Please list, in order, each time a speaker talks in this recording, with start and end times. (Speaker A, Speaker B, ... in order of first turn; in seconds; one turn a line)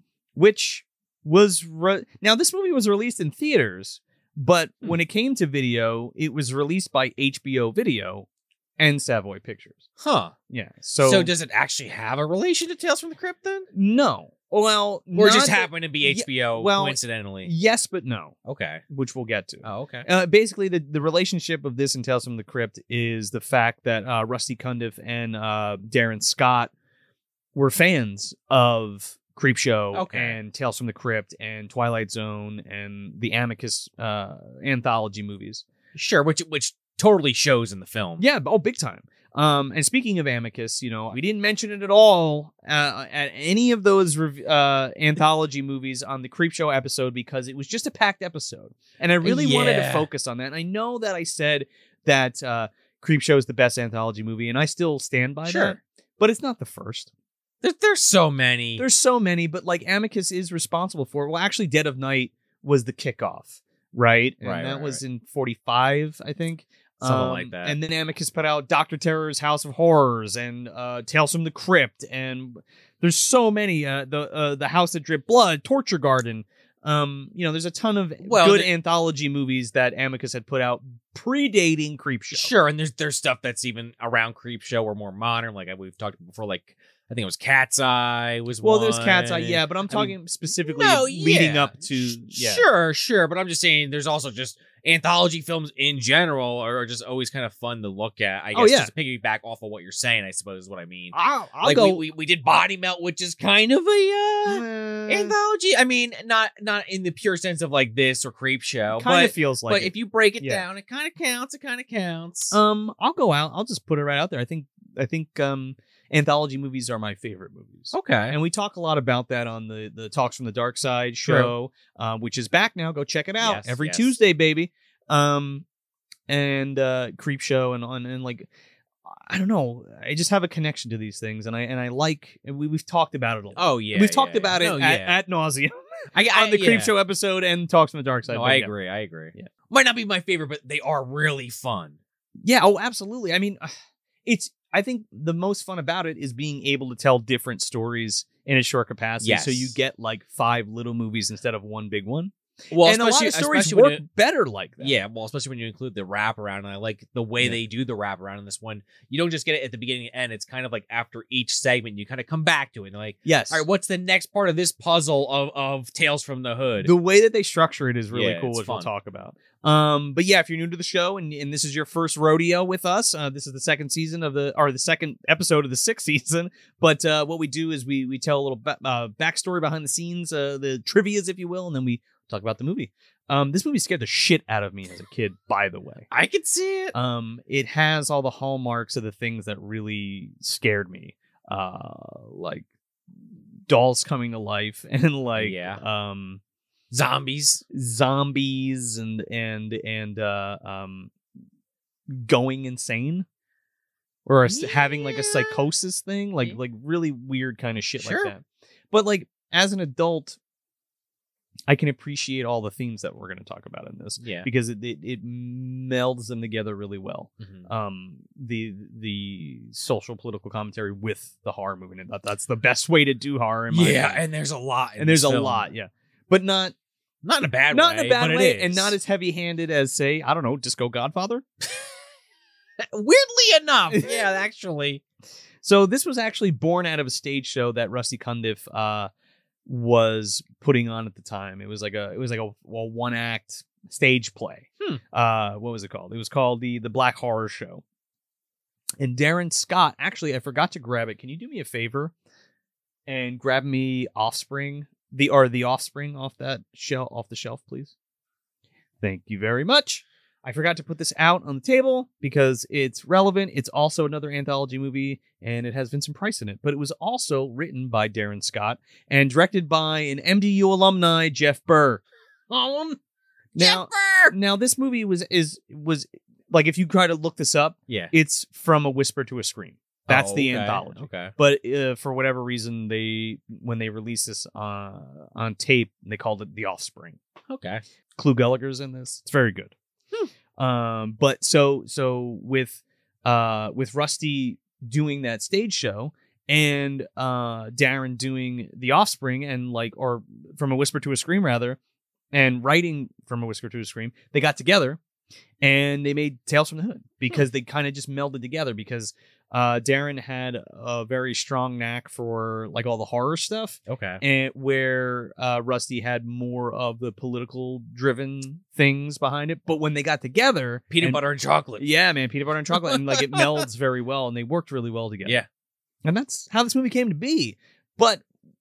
Speaker A: 0.3-8.2
Speaker A: 8.8-9.8
Speaker B: 10.0-10.3
Speaker A: 10.5-11.3
Speaker B: 11.0-13.7
Speaker A: 13.7-18.3
Speaker B: 15.1-17.5
Speaker B: 18.4-18.8
Speaker A: 18.9-26.7
Speaker B: 19.6-20.1
Speaker A: 27.5-35.6
Speaker B: 29.9-30.4
Speaker B: 35.9-38.2
Speaker A: 38.2-57.1
Speaker B: 49.2-50.1
Speaker B: 55.4-55.8
Speaker B: 57.6-58.8
Speaker A: 58.8-82.5
Speaker B: 64.4-65.0
Speaker B: 67.0-67.7
Speaker B: 78.2-78.7
Speaker B: 82.3-90.1
Speaker A: 88.6-92.6
Speaker B: 90.7-112.6
Speaker A: 98.5-98.9
Speaker A: 101.1-102.0
Speaker A: 104.4-105.3
Speaker A: 108.9-110.6
Speaker A: 112.5-125.6
Speaker B: 117.9-118.3
Speaker B: 121.2-121.5
Speaker B: 123.4-124.2
Speaker A: 126.3-128.5
Speaker A: 129.1-138.7
Speaker B: 133.5-135.2
Speaker B: 136.1-136.9
Speaker B: 138.3-142.0
Speaker A: 142.4-143.7
Speaker A: 144.2-154.9
Speaker B: 149.2-149.8
Speaker B: 152.7-154.0
Speaker B: 154.8-166.9
Speaker A: 163.2-163.6
Speaker A: 166.8-186.1
Speaker B: 168.1-168.9
Speaker B: 186.1-186.9
Speaker A: 186.9-192.7
Speaker A: 193.7-196.4
Speaker B: 195.4-195.8
Speaker B: 196.9-197.6
Speaker A: 197.7-201.1
Speaker A: 202.1-203.2
Speaker A: 204.2-210.4
Speaker B: 204.5-205.6
Speaker B: 208.0-208.3
Speaker A: 211.7-224.2
Speaker B: 214.2-214.5
Speaker B: 217.4-217.7
Speaker B: 223.7-225.7
Speaker A: 225.0-226.7
Speaker B: 227.2-228.9
Speaker A: 227.7-231.4
Speaker B: 232.8-235.0
Speaker A: 233.9-234.2
Speaker A: 235.6-239.1
Speaker A: 239.7-247.8
Speaker A: 249.0-252.1
Speaker A: 253.1-257.9
Speaker A: 259.0-273.0
Speaker A: 273.5-287.2
Speaker B: 273.6-274.3
Speaker B: 277.9-278.1
Speaker B: 280.1-281.3
Speaker B: 287.5-287.8
Speaker A: 288.1-289.7
Speaker A: 290.6-301.8
Speaker A: 302.3-305.0
Speaker A: 305.6-321.2
Speaker B: 313.9-314.2
Speaker B: 320.9-321.9
Speaker A: 321.8-325.4
Speaker B: 322.7-323.6
Speaker A: 326.0-328.2